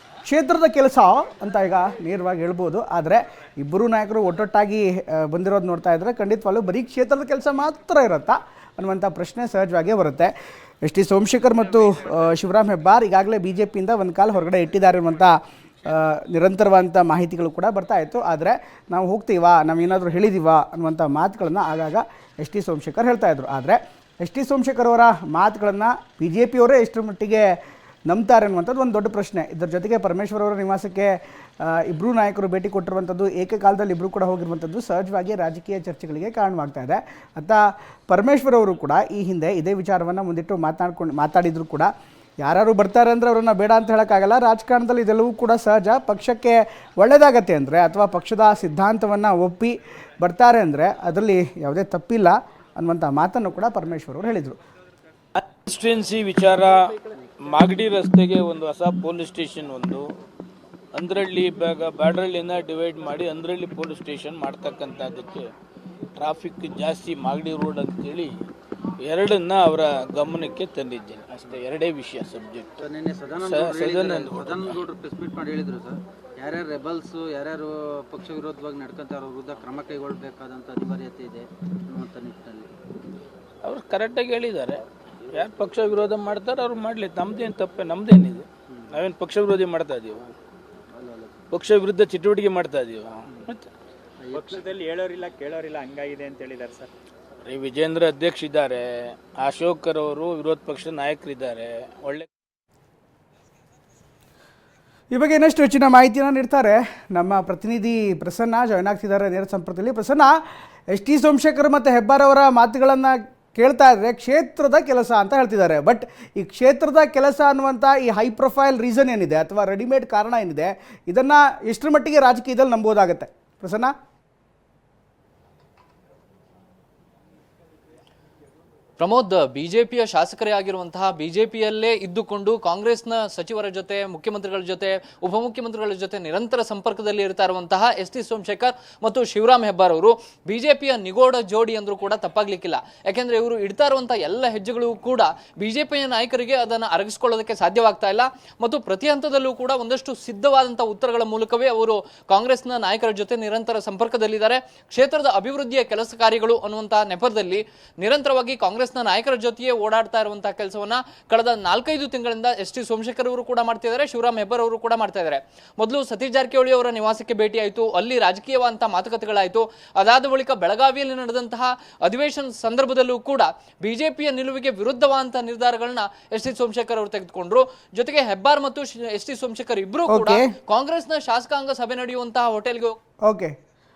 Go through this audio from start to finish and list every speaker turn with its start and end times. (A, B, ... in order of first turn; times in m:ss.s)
0:00.2-0:10.3 A
0:10.8-0:27.6 A
0:28.1-0:41.9 A
0:42.4-0:54.6 A
0:55.4-1:00.1 B
1:00.9-1:05.5 B
1:06.2-1:08.3 B
1:09.0-1:14.8 B
1:12.8-1:22.7 C
1:23.6-1:30.3 B
1:30.9-1:31.3 C
1:31.5-1:33.7 B
1:34.2-1:34.7 C
1:34.3-1:36.9 D
1:37.4-1:42.3 B
1:45.1-1:50.4 A
1:50.9-2:03.9 A
2:09.0-3:03.0 E
3:00.1-3:00.5 A
3:03.2-3:03.6 A